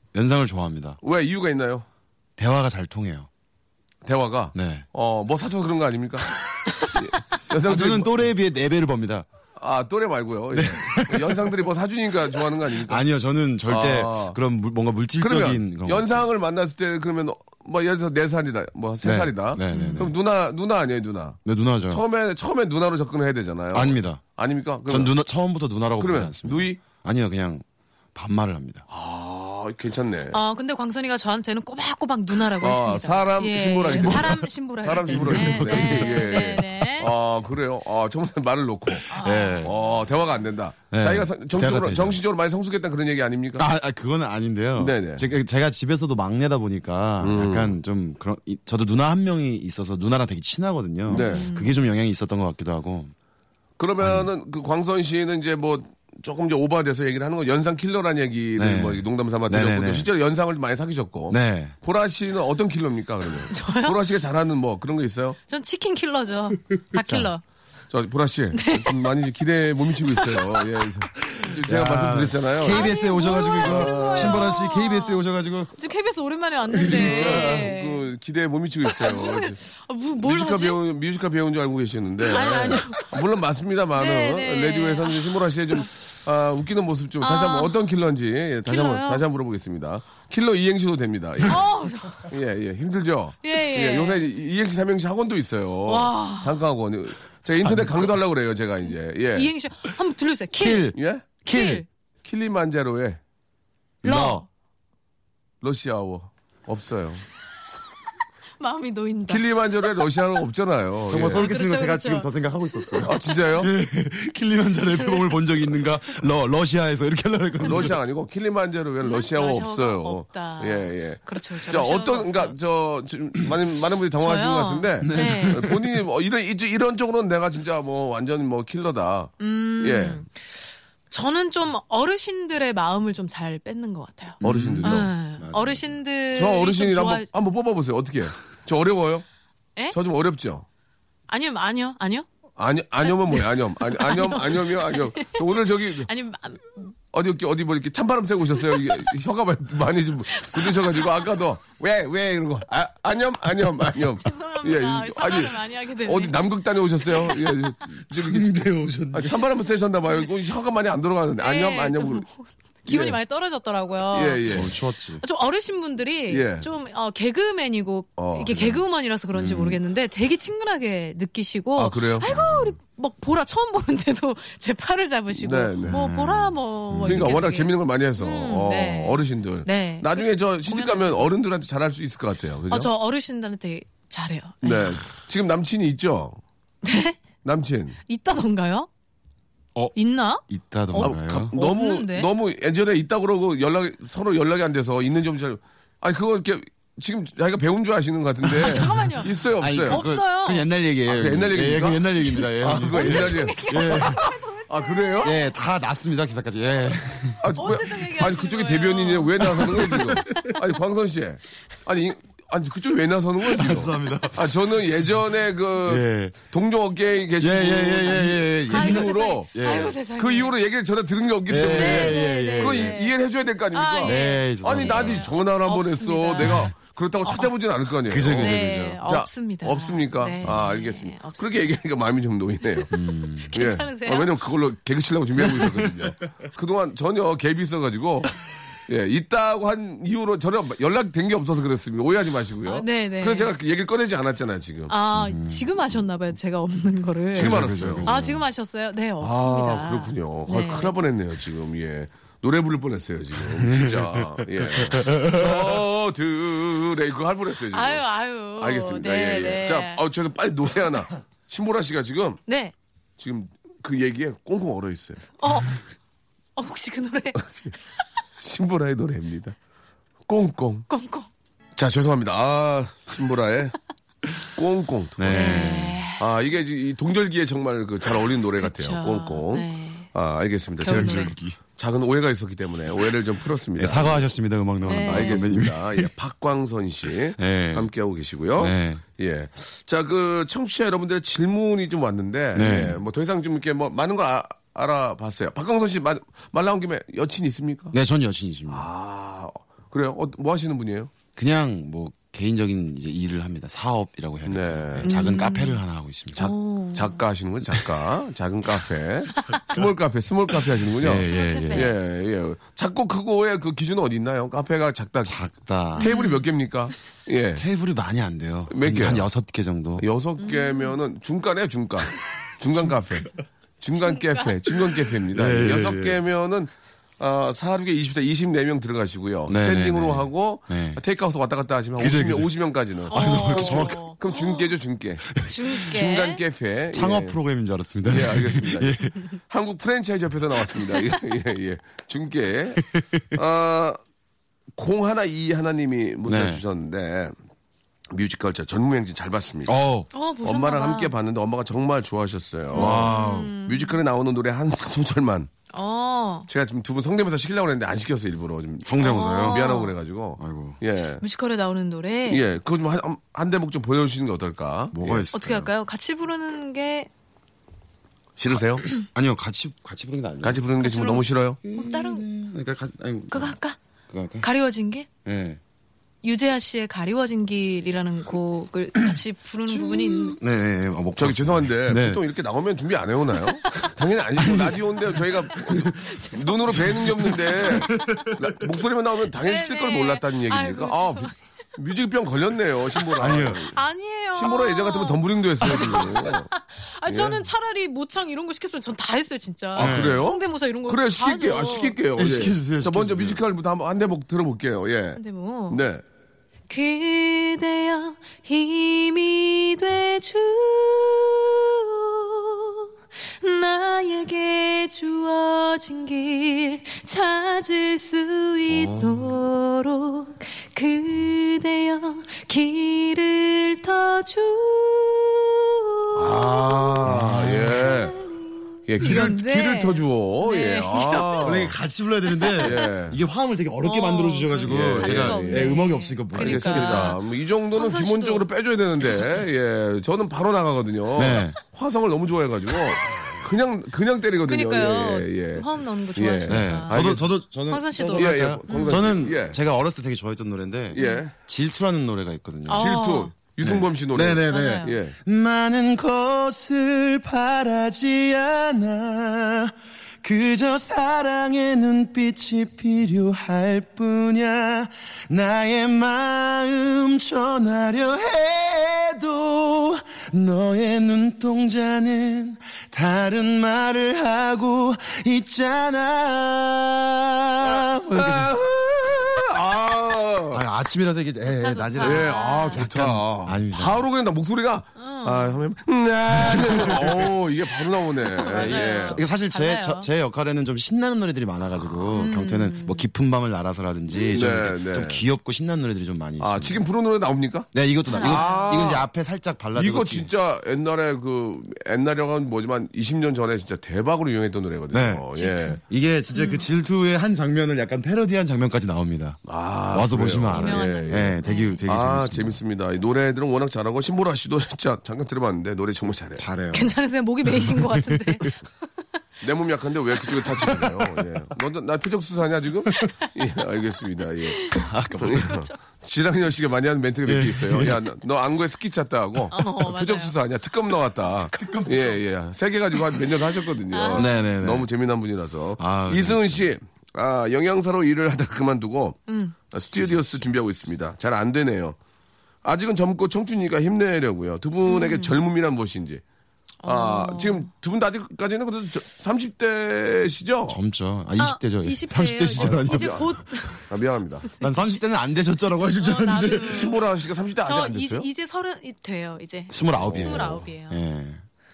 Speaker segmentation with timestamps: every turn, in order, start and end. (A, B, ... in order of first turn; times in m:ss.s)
0:00.1-0:01.0 A
0:01.0-0:01.8 B
0:02.4-0:03.3 A
0:04.0-0:08.3 B
0:04.5-0:04.8 A
0:07.6-0:09.2 A
0:09.6-0:13.0 B
0:10.5-0:11.5 A
0:12.3-0:16.2 A
0:13.7-0:14.4 B
0:15.2-0:25.1 B
0:19.0-0:20.1 A
0:19.7-0:20.1 C
0:21.4-0:22.0 A
0:23.7-0:24.2 A
0:24.9-0:28.8 A
0:26.0-0:26.8 B
0:28.9-0:30.4 B
0:30.3-0:37.1 C
0:32.6-0:43.7 B
0:33.9-0:34.5 A
0:35.1-0:36.5 A
0:39.1-0:39.8 C
0:39.1-0:39.9 A
0:40.9-0:42.2 A
0:43.6-0:53.1 A
0:44.8-0:45.3 B
0:47.2-0:47.8 B
0:51.1-0:51.8 C
0:51.1-0:51.5 B
0:53.8-1:05.4 B
0:54.0-0:54.3 A
0:58.6-1:00.1 A
1:01.3-1:01.7 A
1:03.5-1:04.0 C
1:05.5-1:07.4 C
1:06.9-1:07.3 A
1:07.9-1:14.5 B
1:08.5-1:09.1 C
1:10.0-1:10.6 C
1:11.2-1:15.7 A
1:12.6-1:15.2 C
1:15.8-1:18.1 C
1:16.7-1:17.7 A
1:16.8-1:19.6 B
1:18.9-1:20.8 C
1:20.2-1:39.5 B
1:22.2-1:23.1 C
1:23.9-1:25.9 C
1:27.2-1:27.8 C
1:28.6-1:29.2 C
1:31.4-1:32.3 C
1:33.4-1:34.2 C
1:35.9-1:36.6 C
1:37.6-1:38.2 A
1:39.3-1:41.9 C
1:40.6-1:41.8 A
1:40.9-1:41.3 B
1:42.2-1:43.2 B
1:44.0-1:44.4 A
1:44.0-1:44.4 C
1:45.6-1:47.2 B
1:48.6-1:49.5 C
1:49.3-1:51.5 B
1:51.1-1:58.0 A
1:51.2-1:53.1 C
1:53.0-1:53.7 B
1:57.6-2:10.2 B
1:59.0-2:02.5 C
2:04.2-2:05.7 C
2:05.0-2:06.0 A
2:09.4-2:17.3 C
2:14.4-2:15.1 B
2:14.4-2:15.9 A
2:16.3-2:19.2 B
2:19.9-2:20.6 B
2:21.3-2:22.3 C
2:22.6-2:26.1 B
2:23.0-2:25.4 C
2:26.1-2:26.9 C
2:27.1-2:42.2 B
2:28.6-2:29.0 C
2:30.3-2:31.2 C
2:34.1-2:36.4 C
2:37.9-2:39.5 A
2:41.4-3:01.3 C
2:42.9-2:43.2 B
2:44.1-2:44.7 B
2:44.5-2:45.2 A
2:46.3-2:46.7 B
2:48.2-2:48.7 B
2:48.5-2:48.8 A
2:49.3-2:49.8 A
2:51.8-2:52.3 B
2:52.2-2:52.8 A
2:55.4-2:56.0 B
2:55.8-2:57.4 A
2:57.0-3:02.9 B
3:02.7-3:05.0 C
3:04.6-3:06.4 B
3:06.8-3:07.2 C
3:07.4-3:08.0 B
3:08.1-3:08.9 C
3:09.9-3:12.3 C
3:10.5-3:11.5 A
3:11.0-3:20.0 B
3:18.4-3:24.3 A
3:18.5-3:20.6 C
3:21.1-3:25.4 B
3:22.4-3:25.5 C
3:25.2-3:27.5 A
3:27.4-3:52.9 B
3:27.6-3:30.5 C
3:29.4-3:30.5 A
3:33.4-3:34.7 A
3:35.8-3:36.4 A
3:37.4-3:40.0 A
3:38.7-3:40.5 C
3:41.5-3:43.0 A
3:41.6-3:43.1 C
3:43.7-3:47.5 C
3:44.0-3:45.3 A
3:46.4-3:46.7 A
3:48.1-3:49.0 A
3:48.4-3:51.7 C
3:52.9-3:53.5 A
3:53.5-3:54.4 C
3:53.5-3:58.4 B
3:55.4-3:56.1 A
3:58.9-4:04.9 B
4:02.6-4:03.5 C
4:04.9-4:10.9 C
4:05.1-4:05.7 A
4:07.4-4:08.1 B
4:07.4-4:08.4 A
4:09.2-4:22.4 B
4:13.5-4:15.8 A
4:17.7-4:20.0 C
4:22.5-4:22.7 C
4:23.2-4:25.3 B
4:25.4-4:25.8 C
4:26.6-4:27.5 C
4:28.4-4:29.6 B
4:30.3-4:30.9 B
4:30.9-4:31.3 C
4:31.8-4:33.7 B
4:34.6-4:44.2 B
4:35.2-4:36.0 A
4:35.3-4:36.2 C
4:38.6-4:40.1 C
4:40.8-4:41.3 C
4:40.8-4:41.6 A
4:43.8-4:46.1 A
4:44.8-4:45.4 C
4:45.0-4:57.9 B
4:47.4-4:47.9 A
4:48.6-4:49.0 A
4:52.6-4:53.0 A
4:57.9-4:58.9 A
4:58.7-5:01.1 B
5:01.4-5:06.5 A
5:04.4-5:05.1 B
5:05.0-5:05.8 C
5:06.4-5:15.4 B
5:06.4-5:07.2 C
5:07.7-5:08.1 A
5:09.5-5:09.9 A
5:10.5-5:11.9 A
5:11.2-5:11.9 C
5:15.2-5:16.1 A
5:16.0-5:17.6 B
5:16.0-5:16.5 C
5:17.6-5:20.1 A
5:18.7-5:19.3 B
5:20.0-5:23.3 B
5:20.4-5:21.0 C
5:22.8-5:23.2 A
5:23.8-5:37.4 B
5:24.0-5:24.5 C
5:24.9-5:26.2 A
5:29.5-5:31.0 A
5:32.0-5:32.5 A
5:33.0-5:34.0 A
5:33.1-5:34.7 C
5:35.3-5:35.8 A
5:35.4-5:36.4 C
5:36.9-5:39.2 A
5:38.0-5:44.0 B
5:42.8-5:43.2 A
5:44.8-5:47.3 B
5:46.2-5:46.6 A
5:48.1-5:49.7 B
5:49.7-5:50.1 A
5:50.1-5:51.1 C
5:50.4-5:55.5 B
5:52.7-5:54.0 C
5:52.7-5:53.5 A
5:55.7-5:56.5 C
5:56.5-6:01.2 B
5:58.8-5:59.7 A
5:59.0-5:59.9 C
6:00.4-6:00.8 A
6:01.2-6:02.4 C
6:02.3-6:05.3 B
6:04.9-6:05.7 A
6:05.3-6:07.1 C
6:08.4-6:08.9 B
6:09.0-6:10.6 A
6:10.4-6:11.6 B
6:10.8-6:12.2 C
6:11.6-6:13.6 A
6:13.3-6:13.8 C
6:14.1-6:14.5 A
6:14.4-6:15.1 C
6:15.2-6:15.6 A
6:16.2-6:20.4 C
6:19.7-6:22.2 A
6:21.2-6:33.8 B
6:23.6-6:23.9 C
6:24.4-6:24.8 A
6:25.5-6:28.3 C
6:25.7-6:26.0 A
6:26.7-6:28.4 A
6:29.4-6:31.3 C
6:33.0-6:42.0 C
6:33.2-6:33.6 A
6:34.3-6:36.5 B
6:37.1-6:37.4 B
6:39.7-6:46.0 B
6:39.8-6:40.3 A
6:42.2-6:43.4 A
6:45.2-6:45.8 C
6:46.7-6:52.9 C
6:53.4-7:07.1 C
6:58.7-6:59.4 B
7:06.2-7:08.2 B
7:07.0-7:08.0 A
7:07.7-7:11.6 C
7:08.9-7:11.7 B
7:11.4-7:17.2 A
7:12.3-7:12.9 C
7:12.6-7:13.2 B
7:13.8-7:17.2 C
7:14.6-7:15.8 B
7:16.3-7:27.3 B
7:17.7-7:18.4 C
7:21.1-7:21.6 A
7:24.5-7:27.0 C
7:26.5-7:33.0 A
7:27.7-7:29.1 C
7:28.1-7:29.6 B
7:30.9-7:31.3 B
7:30.9-7:31.2 C
7:32.7-7:33.3 C
7:32.7-7:35.2 B
7:33.6-7:58.6 A
7:34.5-7:35.0 C
7:57.6-8:00.6 B
8:00.5-8:04.0 A
8:01.6-8:02.8 C
8:02.0-8:09.2 B
8:05.0-8:05.6 C
8:06.3-8:07.4 A
8:08.3-8:10.1 C
8:08.4-8:16.9 A
8:12.1-8:13.1 C
8:14.1-8:14.4 C
8:14.3-8:15.2 B
8:16.4-8:19.1 B
8:17.7-8:20.3 A
8:18.1-8:19.0 C
8:19.7-8:25.8 B
8:24.9-8:25.3 A
8:25.4-8:25.8 C
8:25.8-8:29.4 A
8:26.3-8:26.6 C
8:29.4-8:36.4 B
8:29.9-8:32.6 A
8:30.5-8:31.8 C
8:36.4-8:38.5 A
8:36.7-8:38.6 C
8:39.4-9:02.0 B
8:40.4-8:41.2 A
8:42.9-8:45.8 C
8:44.7-8:45.6 A
8:47.2-8:48.0 A
8:49.5-8:50.4 C
8:51.4-8:52.2 C
8:51.5-8:52.2 A
8:53.9-8:54.4 C
8:54.1-8:54.9 A
8:55.8-8:56.7 A
8:59.3-8:59.5 C
9:02.6-9:06.2 B
9:04.8-9:05.4 C
9:06.8-9:07.7 C
9:06.8-9:10.8 B
9:10.7-9:13.4 A
9:11.4-9:13.9 C
9:12.6-9:14.5 B
9:14.6-9:16.9 A
9:16.0-9:17.0 C
9:16.4-9:18.3 B
9:17.6-9:21.0 C
9:19.7-9:21.4 A
9:19.9-9:20.6 B